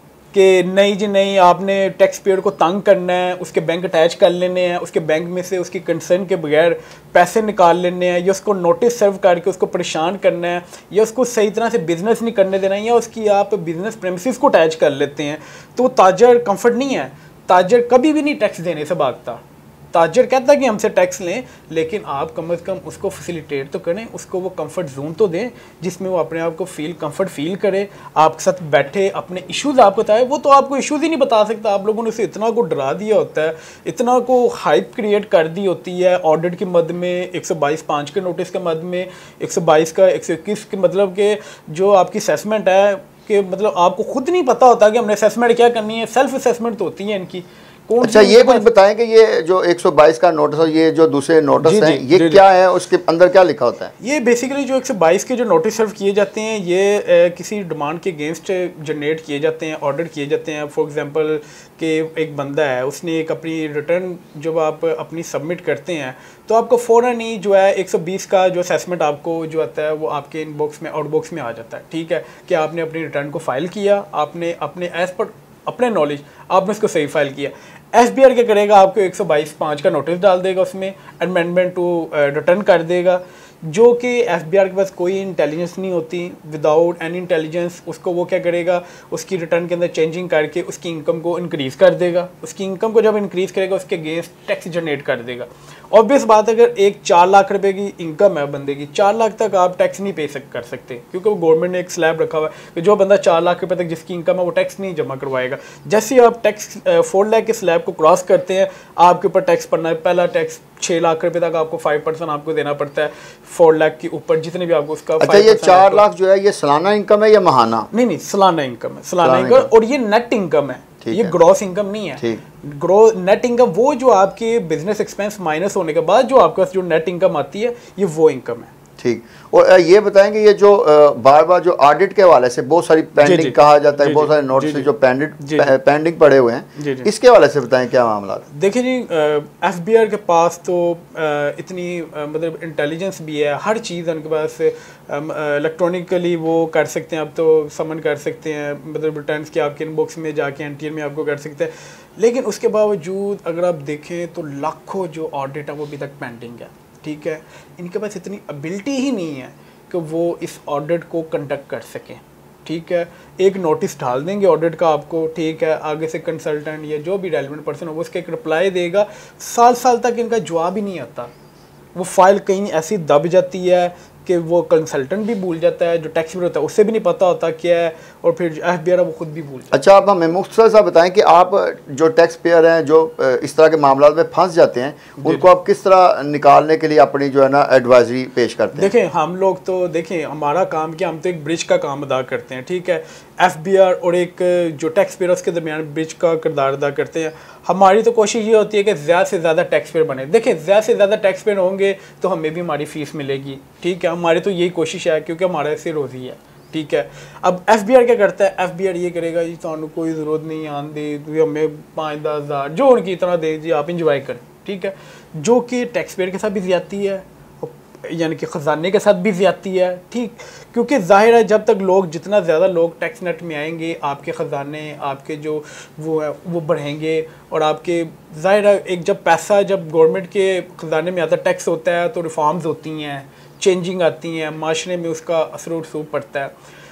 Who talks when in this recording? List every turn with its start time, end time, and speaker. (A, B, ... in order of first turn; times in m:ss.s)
0:00.3-0:48.6 A
0:48.0-0:53.9 B
0:51.6-0:52.4 A
0:54.0-1:56.0 A
1:55.2-1:57.9 B
1:57.9-2:08.7 A
1:59.2-1:59.7 B
2:01.0-2:01.3 B
2:09.0-2:18.4 B
2:13.2-2:15.7 A
2:16.8-2:17.1 A
2:18.5-2:51.3 A
2:51.9-2:59.7 A
2:59.7-3:08.9 B
3:05.2-3:05.5 A
3:08.8-3:56.5 A